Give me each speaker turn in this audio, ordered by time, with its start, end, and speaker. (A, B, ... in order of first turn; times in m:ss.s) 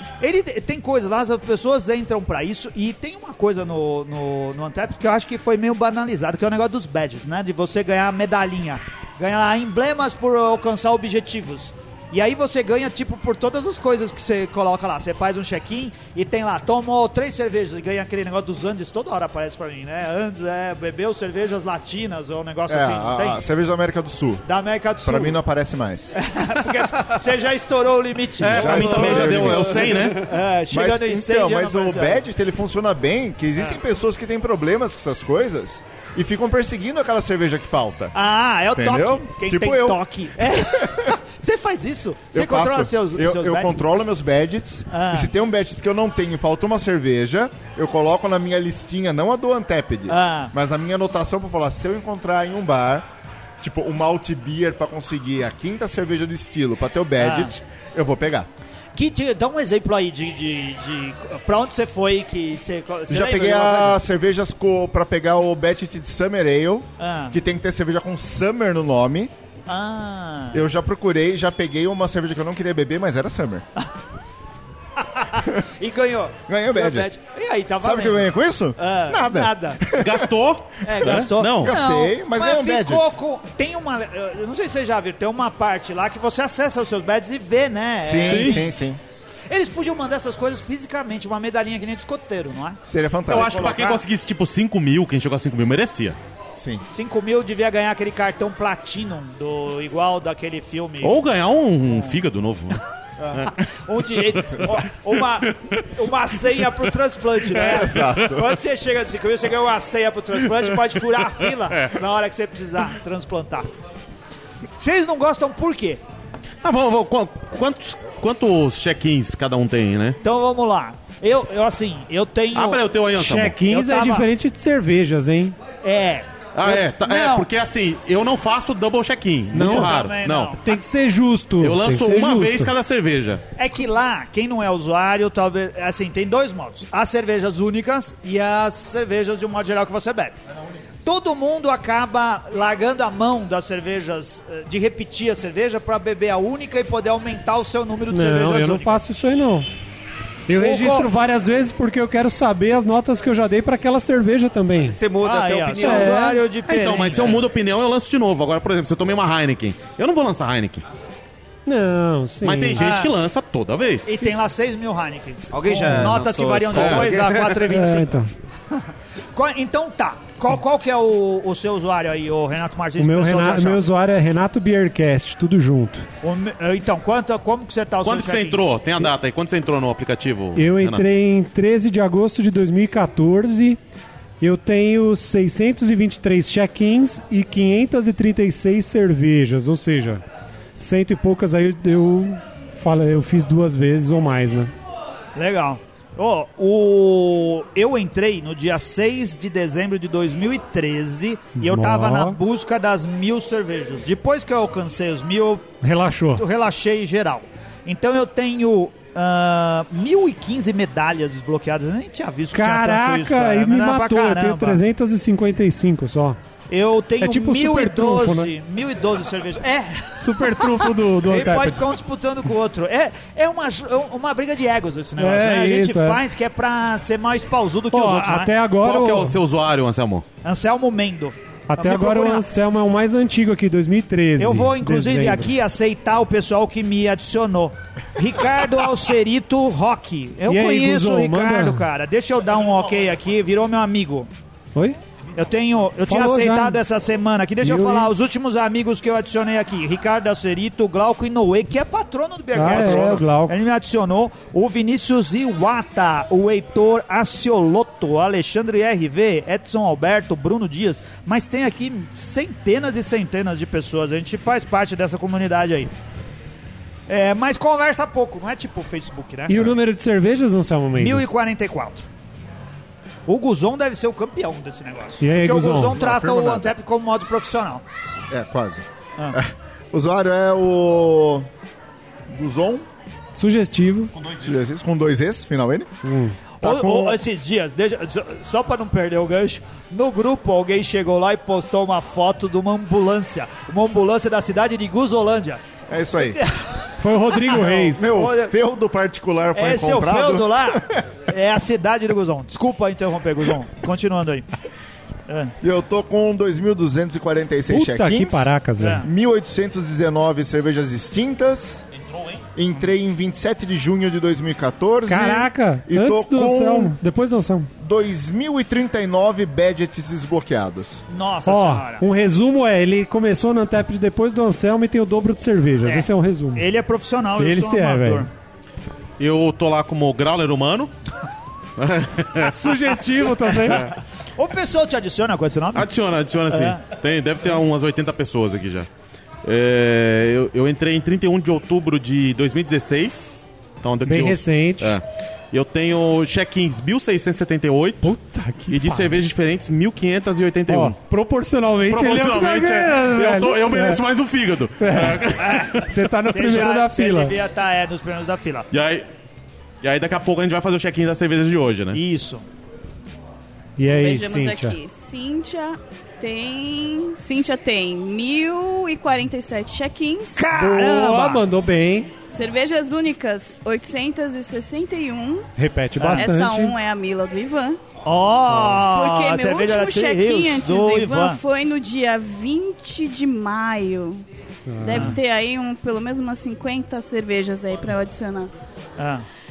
0:00.2-0:23.4 A
0:22.7-0:24.4 B
0:24.4-0:25.4 A
0:25.0-0:26.2 B
0:26.2-0:32.2 A
0:28.4-0:30.2 C
0:28.4-0:29.9 B
0:30.7-0:38.1 B
0:38.1-0:43.8 A
0:38.7-0:41.1 B
0:42.3-0:53.0 B
0:44.9-0:45.3 A
0:50.1-0:50.5 A
0:53.6-0:58.5 B
0:57.2-0:57.5 A
0:58.9-1:04.0 A
1:03.1-1:09.3 B
1:07.0-1:07.4 A
1:09.7-1:10.6 A
1:10.5-1:13.6 B
1:15.0-1:18.2 A
1:16.5-1:17.1 B
1:17.8-1:20.3 B
1:18.8-1:19.8 A
1:19.9-1:21.8 C
1:20.8-1:28.7 A
1:21.0-1:23.1 B
1:28.0-1:29.0 B
1:28.2-1:28.6 C
1:29.5-1:34.0 A
1:32.8-1:33.7 B
1:33.3-1:36.2 C
1:36.6-1:36.8 B
1:36.9-1:41.2 A
1:41.0-1:43.6 C
1:41.9-1:42.2 A
1:43.2-1:53.7 A
1:44.2-1:45.8 C
1:47.6-1:48.3 C
1:47.6-1:48.5 B
1:54.8-1:56.0 A
1:56.6-2:00.2 C
2:00.2-2:02.8 A
2:02.5-2:03.6 C
2:03.1-2:05.6 D
2:03.6-2:04.3 A
2:05.8-2:07.5 A
2:06.5-2:10.6 C
2:09.5-2:10.0 D
2:09.5-2:10.6 A
2:10.6-2:12.7 D
2:11.6-2:13.4 C
2:13.6-2:20.4 A
2:21.0-2:29.0 A
2:28.1-2:29.7 D
2:30.5-2:35.0 D
2:30.5-2:31.1 A
2:34.8-2:36.3 E
2:35.2-2:37.4 A
2:35.8-2:36.4 D
2:36.6-2:40.8 C
2:41.6-2:42.9 D
2:42.4-2:44.1 C
2:42.8-2:43.1 A
2:44.1-2:48.1 A
2:45.5-2:47.7 E
2:46.7-2:47.1 C
2:47.7-2:48.3 D
2:49.3-2:53.8 A
2:53.0-2:56.0 D
2:56.2-2:58.7 A
2:58.0-3:01.0 C
3:00.5-3:03.8 D
3:04.4-3:10.2 D
3:10.8-3:14.7 D
3:15.4-3:25.7 A
3:21.6-3:22.4 D
3:25.8-3:26.4 D
3:26.4-3:34.8 A
3:32.5-3:36.4 D
3:36.7-3:48.5 A
3:37.2-3:38.5 D
3:40.2-3:41.8 D
3:45.2-3:46.2 D
3:47.9-3:49.4 D
3:48.8-3:50.2 C
3:50.4-3:52.4 A
3:51.7-3:55.5 D
3:54.4-4:04.3 A
4:00.5-4:01.8 D
4:05.4-4:25.9 A
4:06.1-4:06.8 D
4:07.6-4:08.1 D
4:12.5-4:13.5 D
4:27.1-4:29.7 A
4:29.5-4:31.2 D
4:31.0-4:32.1 A
4:33.3-4:37.8 A
4:35.2-4:36.0 D
4:35.7-4:36.7 B
4:38.3-4:41.5 B
4:42.3-4:42.8 B
4:43.3-4:44.1 D
4:44.2-4:45.9 B
4:46.0-4:46.4 D
4:46.6-4:55.6 A
4:46.6-4:47.2 B
4:55.9-4:56.4 B
4:56.2-4:58.5 A
4:57.0-4:58.1 D
4:57.9-5:01.0 B
4:59.5-5:04.5 A
5:05.3-5:05.5 A
5:05.6-5:11.8 B
5:07.7-5:09.0 D
5:08.8-5:09.1 A
5:12.5-5:16.9 B
5:15.1-5:17.7 D
5:17.8-5:21.0 B
5:21.1-5:22.0 A
5:21.4-5:26.6 D
5:25.8-5:28.3 A
5:27.4-5:28.3 D
5:29.2-5:30.9 C
5:31.8-5:32.7 C
5:32.3-5:33.9 D
5:34.4-5:35.9 A
5:35.7-5:38.9 C
5:36.5-5:36.8 A
5:39.4-5:48.0 C
5:44.0-5:45.0 D
5:48.0-5:49.2 D
5:48.7-5:51.0 C
5:50.7-5:54.0 D
5:51.9-5:55.9 C
5:54.8-5:57.3 D
5:55.4-5:58.7 A
5:58.7-5:59.0 C
5:59.8-6:02.0 C
6:01.9-6:02.4 A
6:03.8-6:04.8 D
6:03.9-6:10.5 F
6:10.3-6:11.4 A
6:10.5-6:12.1 D
6:12.3-6:15.5 F
6:15.6-6:16.7 D
6:16.0-6:16.3 A
6:16.1-6:17.8 F
6:18.0-6:21.4 A
6:18.8-6:24.2 F
6:24.7-6:25.2 D
6:24.8-6:28.5 F
6:24.9-6:25.2 A
6:29.0-6:29.2 A